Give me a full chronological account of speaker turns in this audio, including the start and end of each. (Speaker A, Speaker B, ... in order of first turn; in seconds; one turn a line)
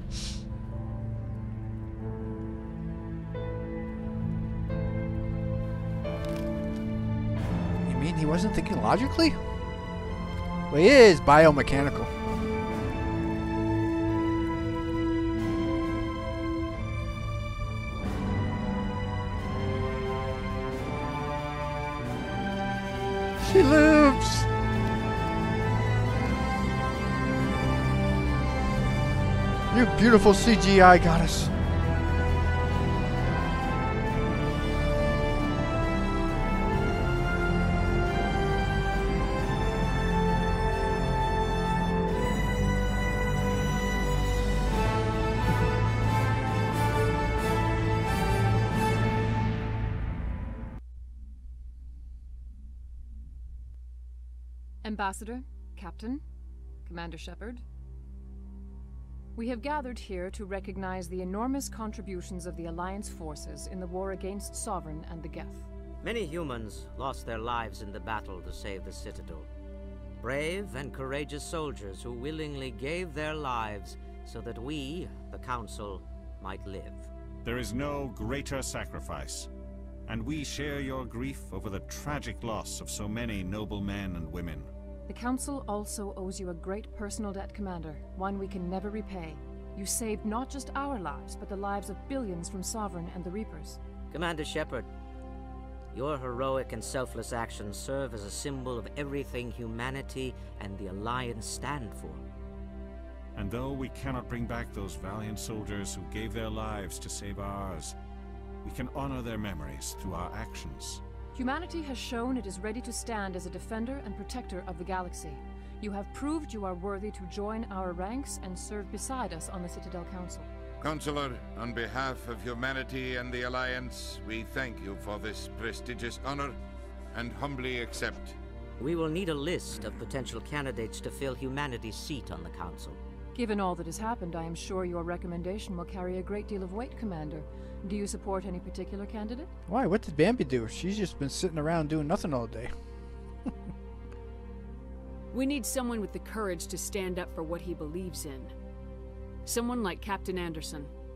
Speaker A: 7.8-9.4
Speaker A: 10.7-12.1
Speaker A: 23.4-24.5
Speaker A: 29.7-31.5
Speaker B: 54.8-56.2
Speaker B: 56.8-57.6
Speaker B: 59.4-65.7
Speaker C: 66.0-69.5
Speaker C: 70.2-77.1
Speaker D: 77.4-79.5
Speaker D: 80.0-84.7
Speaker B: 85.1-93.8
Speaker C: 94.1-94.9
Speaker C: 95.9-102.2
Speaker D: 103.3-107.9
Speaker D: 108.6-111.0
Speaker B: 111.3-120.5
Speaker E: 120.8-126.6
Speaker E: 127.1-128.3
Speaker C: 128.8-133.0
Speaker B: 133.3-139.5
Speaker A: 139.7-142.7
Speaker F: 145.3-148.5
Speaker F: 149.4-150.9